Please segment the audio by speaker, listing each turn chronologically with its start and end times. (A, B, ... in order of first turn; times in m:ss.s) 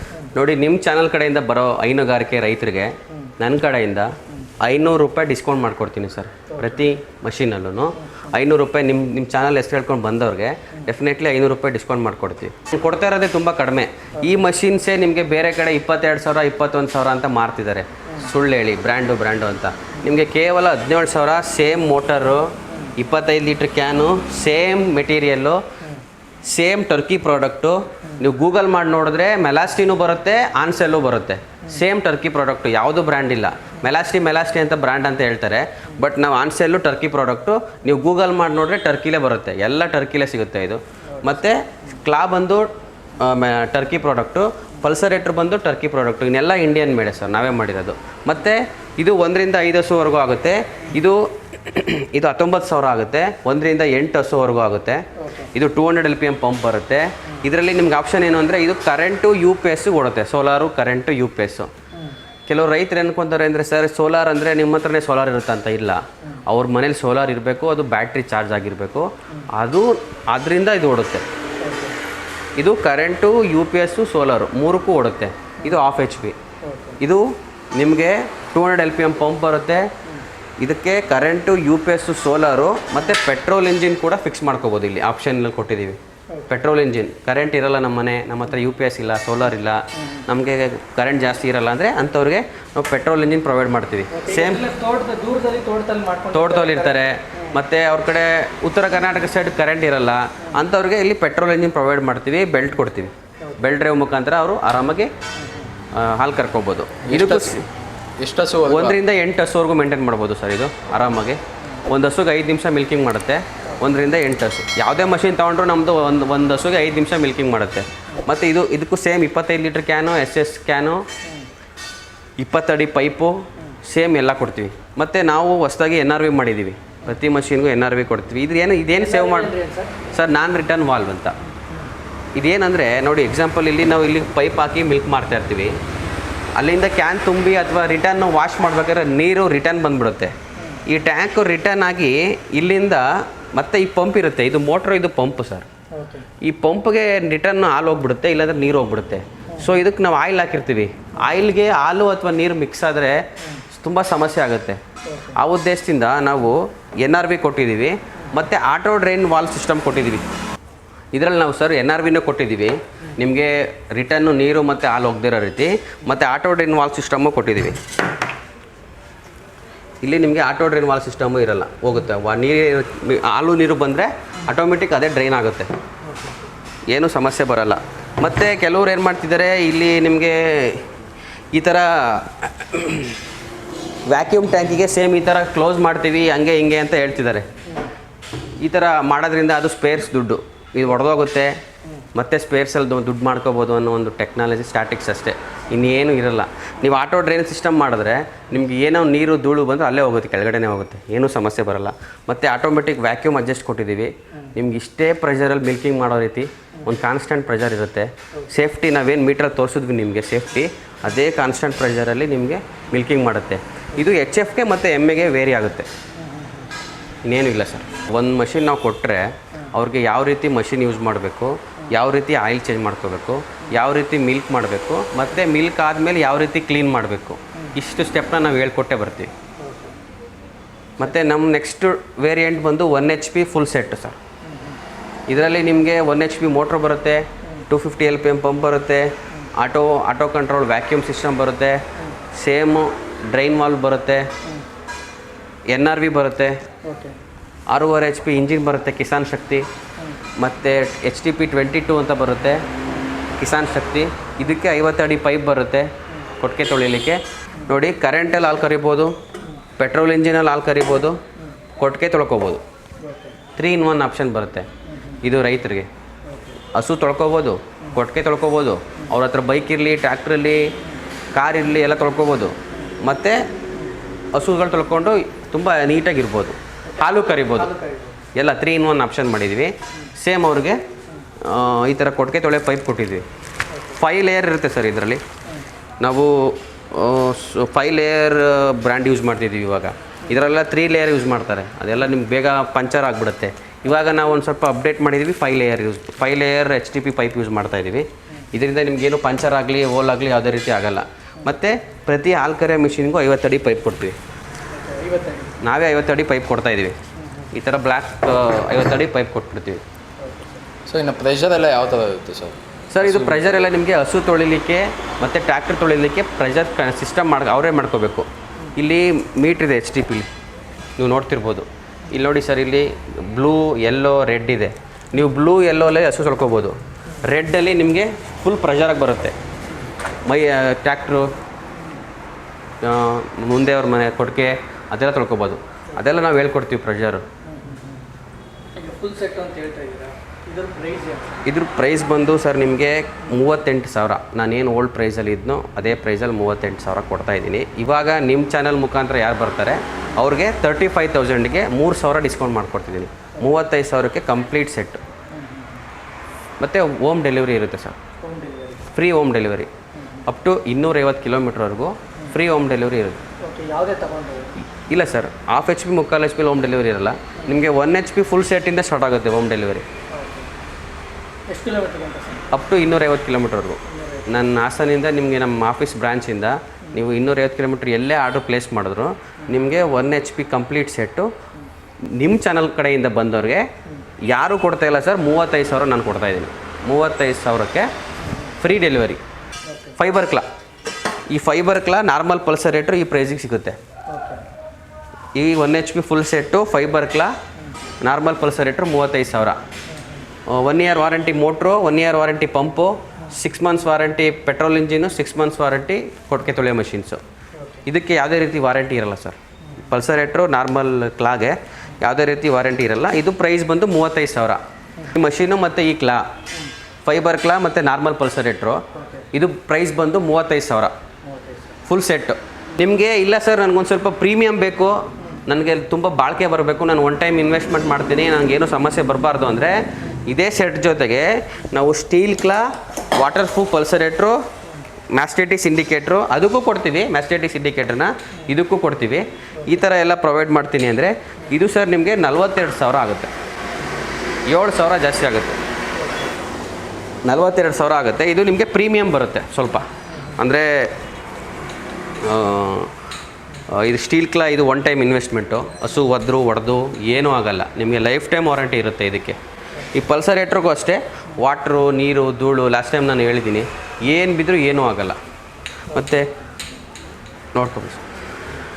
0:00.3-0:25.6 A
0:06.5-0:06.8 B
0:08.0-0:08.3 B
0:26.4-1:01.7 A
0:41.1-0:41.9 B
0:55.2-0:55.5 B
1:02.5-1:11.2 A
1:11.6-1:12.0 B
1:12.6-1:16.4 A
1:16.6-1:17.0 B
1:17.0-1:19.9 A
1:20.6-1:34.6 A
1:34.1-1:37.6 B
1:36.3-1:45.1 A
1:45.4-1:45.7 B
1:45.9-1:47.6 A
1:47.1-1:47.5 C
1:48.2-1:49.0 C
1:48.7-2:01.0 A
2:02.4-2:09.5 A
2:08.9-2:10.0 B
2:10.1-2:11.3 A
2:11.7-2:11.9 B
2:12.4-2:15.8 A
2:16.6-2:20.3 A
2:20.6-2:20.8 B
2:20.8-2:25.7 A
2:25.9-2:26.2 B
2:26.4-2:34.8 A
2:35.0-2:35.4 B
2:35.3-2:40.2 A
2:41.1-2:47.8 A
2:50.0-2:55.7 A
2:56.1-2:56.4 B
2:56.9-3:00.9 A
3:01.5-3:03.2 A
3:04.1-3:07.5 A
3:08.6-3:11.6 A
3:12.1-3:35.9 A
3:36.2-3:36.7 B
3:37.2-3:49.3 A
3:49.6-3:50.0 B
3:51.0-3:54.2 A
3:54.4-3:54.8 B
3:55.3-4:01.8 A
4:02.3-4:04.3 A
4:05.7-4:06.6 A
4:06.8-4:07.2 B
4:07.7-4:09.6 A
4:10.4-4:12.6 A
4:13.4-4:19.1 A
4:19.8-4:21.2 A
4:21.8-4:22.6 A
4:23.0-4:23.4 B
4:23.6-4:24.7 A
4:24.9-4:25.2 B
4:25.2-4:25.9 A
4:26.3-4:26.6 B
4:26.7-4:30.6 A
4:31.3-4:33.4 A
4:34.3-4:37.7 A
4:36.9-4:38.2 B
4:38.3-4:40.8 A
4:41.4-4:43.2 A
4:43.9-4:45.2 A
4:46.0-5:04.2 A
5:04.7-5:05.6 B
5:05.6-5:07.0 A
5:07.2-5:07.5 B
5:07.5-5:09.8 A
5:10.2-5:10.6 B
5:10.9-5:13.7 C
5:12.9-5:20.3 A
5:21.0-5:29.4 A
5:30.2-5:31.3 A
5:32.8-5:37.2 A
5:37.4-5:38.0 B
5:38.8-5:41.4 B
5:41.4-5:55.0 A
5:55.3-5:55.8 B
5:56.6-5:58.0 A
5:58.2-5:58.8 B
5:58.9-5:59.7 A
6:00.0-6:00.2 B
6:00.2-6:03.2 A
6:03.4-6:04.5 B
6:04.9-6:09.8 A
6:10.1-6:10.5 B
6:11.5-6:12.5 B
6:12.5-6:21.3 A
6:13.9-6:14.4 B
6:22.2-6:23.6 A
6:24.3-6:27.9 A
6:28.2-6:28.5 B
6:28.6-6:29.2 A
6:29.7-6:30.0 B
6:30.0-6:30.4 A
6:31.3-6:33.8 A
6:34.1-6:34.4 B
6:35.4-6:37.3 A
6:38.0-6:39.6 A
6:39.9-6:40.3 B
6:40.5-6:47.2 A
6:47.6-6:47.8 B
6:47.8-6:56.2 A
6:57.0-7:00.9 A
6:58.9-6:59.3 B
7:01.2-7:01.8 B
7:01.8-7:14.4 A
7:15.1-7:23.3 A
7:23.8-7:24.0 B
7:24.5-7:25.6 A
7:26.0-7:26.3 B
7:27.2-7:30.9 A
7:30.1-7:30.4 B
7:32.2-7:32.9 A
7:33.7-7:39.4 A
7:39.9-7:45.2 A
7:45.9-7:46.3 A
7:45.9-7:46.3 B
7:47.5-7:48.0 A